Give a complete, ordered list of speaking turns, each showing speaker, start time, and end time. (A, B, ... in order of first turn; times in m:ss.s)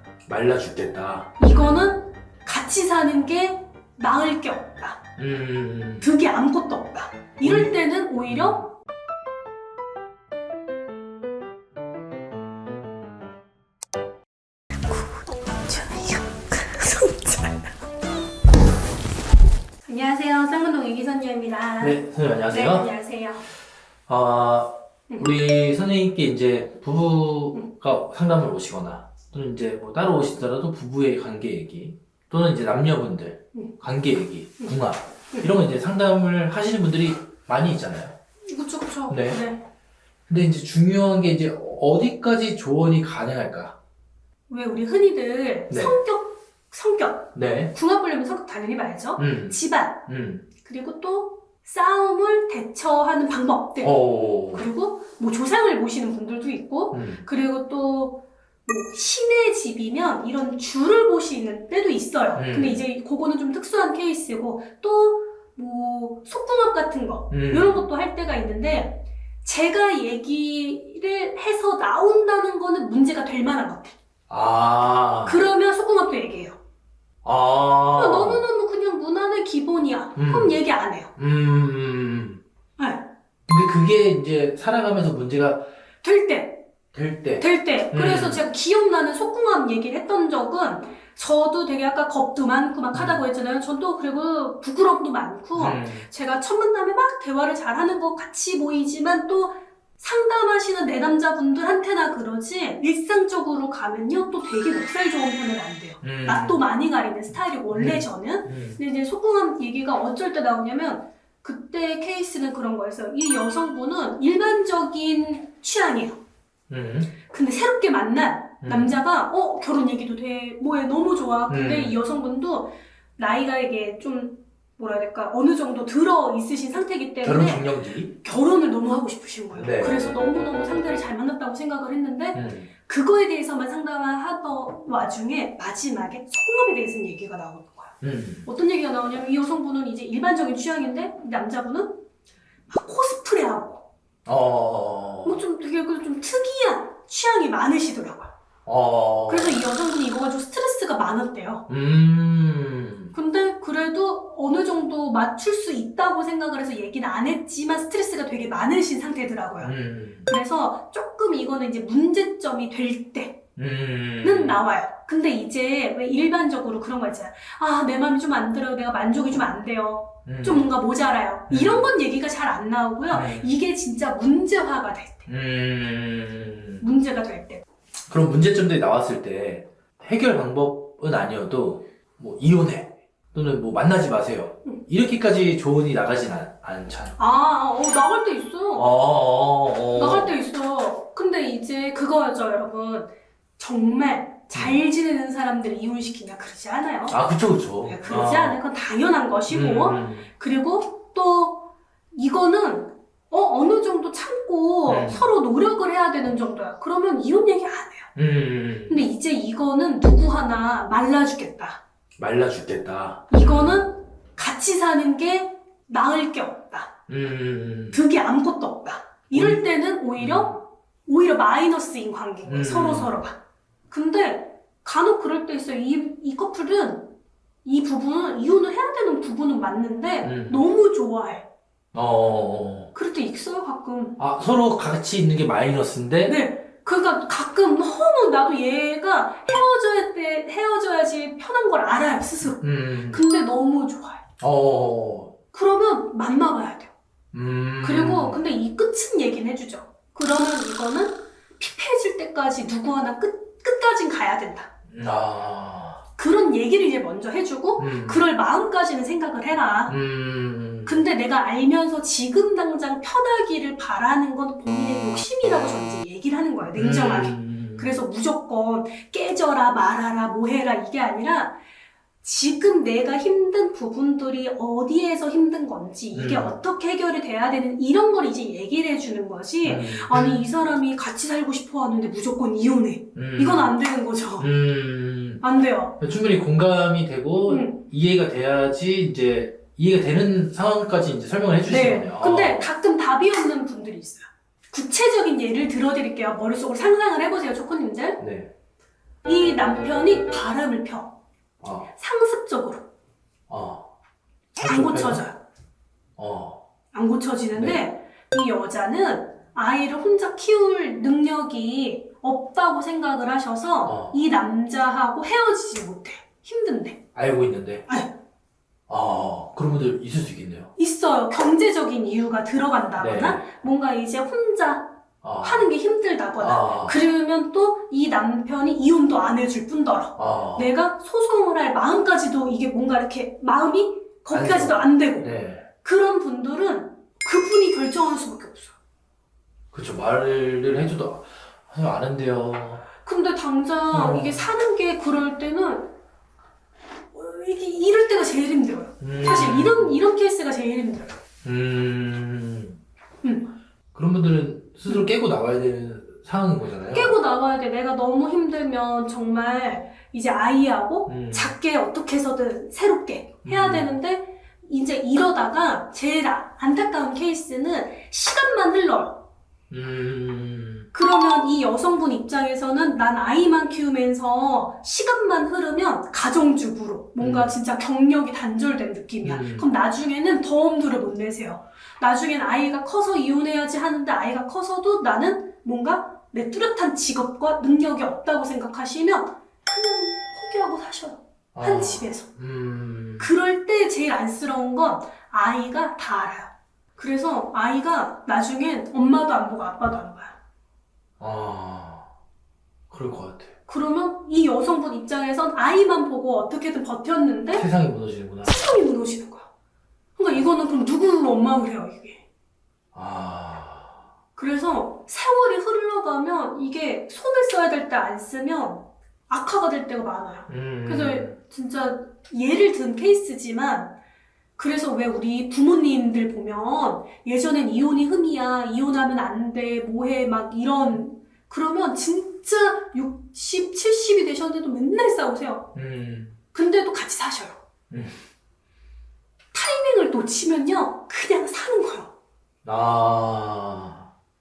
0:00.3-0:01.3 A
0:01.4-0:05.0 B
0:05.2-0:06.1 A
0:06.0-0:08.7 B
0:07.4-0:08.6 A
0:14.9-0:17.5 B
0:19.8-0:23.5 B
0:21.8-0:22.9 A
0:24.1-0:38.1 A
0:38.5-0:39.6 B
0:39.1-0:39.4 A
0:40.3-0:43.7 A
0:44.5-0:50.0 B
0:45.7-0:45.9 A
0:47.3-0:47.7 A
0:49.2-0:50.4 A
0:50.6-1:14.0 B
0:53.8-0:54.7 A
0:56.9-0:57.2 A
1:02.3-1:02.8 A
1:07.3-1:07.9 A
1:14.3-1:15.4 A
1:15.2-1:16.6 B
1:17.2-1:18.4 A
1:17.9-1:21.1 B
1:20.2-1:20.6 A
1:21.2-1:22.4 A
1:22.8-1:23.0 B
1:23.5-1:25.6 A
1:26.0-1:26.6 B
1:26.9-1:28.4 A
1:27.4-1:56.2 B
1:32.9-1:33.2 A
1:35.5-1:36.1 A
1:46.0-1:46.6 A
1:47.7-1:48.8 A
1:56.7-1:57.1 A
1:57.3-2:22.0 B
1:58.6-1:59.0 A
2:01.5-2:02.0 A
2:07.2-2:08.1 A
2:09.5-2:10.0 A
2:12.3-2:12.7 A
2:18.0-2:18.5 A
2:22.7-2:23.8 B
2:24.2-2:25.4 A
2:25.2-2:28.3 B
2:28.6-2:29.6 A
2:29.3-2:31.6 B
2:31.7-2:33.1 A
2:33.1-2:39.7 B
2:39.6-2:40.3 A
2:40.2-2:43.4 B
2:43.6-2:44.6 A
2:44.2-2:55.3 B
2:50.2-2:50.7 A
2:51.5-2:51.9 A
2:53.1-2:53.5 A
2:55.3-2:56.8 A
2:56.8-2:57.6 B
2:58.1-3:07.2 A
3:07.2-3:08.8 B
3:08.7-3:10.3 A
3:09.9-3:17.2 B
3:14.5-3:14.8 A
3:17.1-3:18.6 A
3:17.8-3:28.1 B
3:19.5-3:20.3 A
3:24.9-3:25.2 A
3:28.2-3:29.0 A
3:28.9-3:31.8 B
3:32.2-3:33.8 A
3:33.3-3:36.9 B
3:37.1-3:38.0 A
3:37.9-3:43.4 B
3:39.3-3:39.6 A
3:40.2-3:40.6 A
3:42.4-3:43.2 A
3:43.9-3:47.1 B
3:47.6-3:51.4 B
3:50.2-3:50.6 A
3:51.9-3:52.9 A
3:52.9-3:54.2 B
3:54.2-3:56.4 A
3:56.2-4:04.2 B
4:02.6-4:03.2 A
4:04.4-4:05.3 A
4:05.5-4:06.9 B
4:07.3-4:08.4 A
4:07.8-4:14.7 B
4:14.9-4:16.0 A
4:16.2-4:19.9 B
4:17.8-4:18.2 A
4:19.9-4:21.0 A
4:20.8-4:31.6 B
4:26.8-4:28.0 A
4:32.2-4:44.5 B
4:36.1-4:36.6 A
4:39.6-4:40.4 A
4:43.1-4:43.7 A
4:44.4-4:45.4 A
4:45.4-4:45.9 B
4:46.0-4:52.7 A
4:47.4-4:47.8 B
4:51.6-4:58.2 B
4:58.2-4:58.5 A
4:59.2-5:01.1 B
5:01.6-5:01.9 A
5:02.0-5:02.8 B
5:03.5-5:03.8 A
5:04.6-5:05.4 B
5:04.6-5:05.2 A
5:06.2-5:06.6 A
5:06.9-5:17.0 B
5:07.5-5:07.8 A
5:13.8-5:14.1 A
5:17.1-5:17.8 A
5:18.9-5:20.7 A
5:20.8-5:38.7 B
5:23.0-5:23.4 A
5:25.2-5:25.7 A
5:26.4-5:27.0 A
5:30.2-5:30.7 A
5:34.3-5:35.6 A
5:39.7-5:42.8 A
5:43.0-5:45.9 B
5:43.9-5:44.4 A
5:47.1-5:51.2 B
5:49.0-5:50.0 A
5:51.4-5:52.8 A
5:53.9-5:57.2 A
5:56.9-6:09.2 B
6:01.0-6:01.5 A
6:03.4-6:03.9 A
6:09.7-6:10.9 A
6:10.9-6:32.3 B
6:17.2-6:17.5 A
6:19.2-6:19.7 A
6:31.5-6:33.3 A
6:33.2-6:40.4 B
6:41.2-6:42.1 A
6:42.9-6:43.5 A
6:43.7-6:47.6 B
6:47.5-6:48.6 A
6:48.4-6:49.5 B
6:50.2-6:52.2 B
6:52.9-6:54.0 A
6:54.4-7:03.9 B
7:00.5-7:01.3 A
7:04.6-7:15.7 B
7:15.7-7:16.4 A
7:16.5-7:17.6 B
7:17.9-7:18.2 A
7:19.5-7:22.1 B
7:22.6-7:24.1 A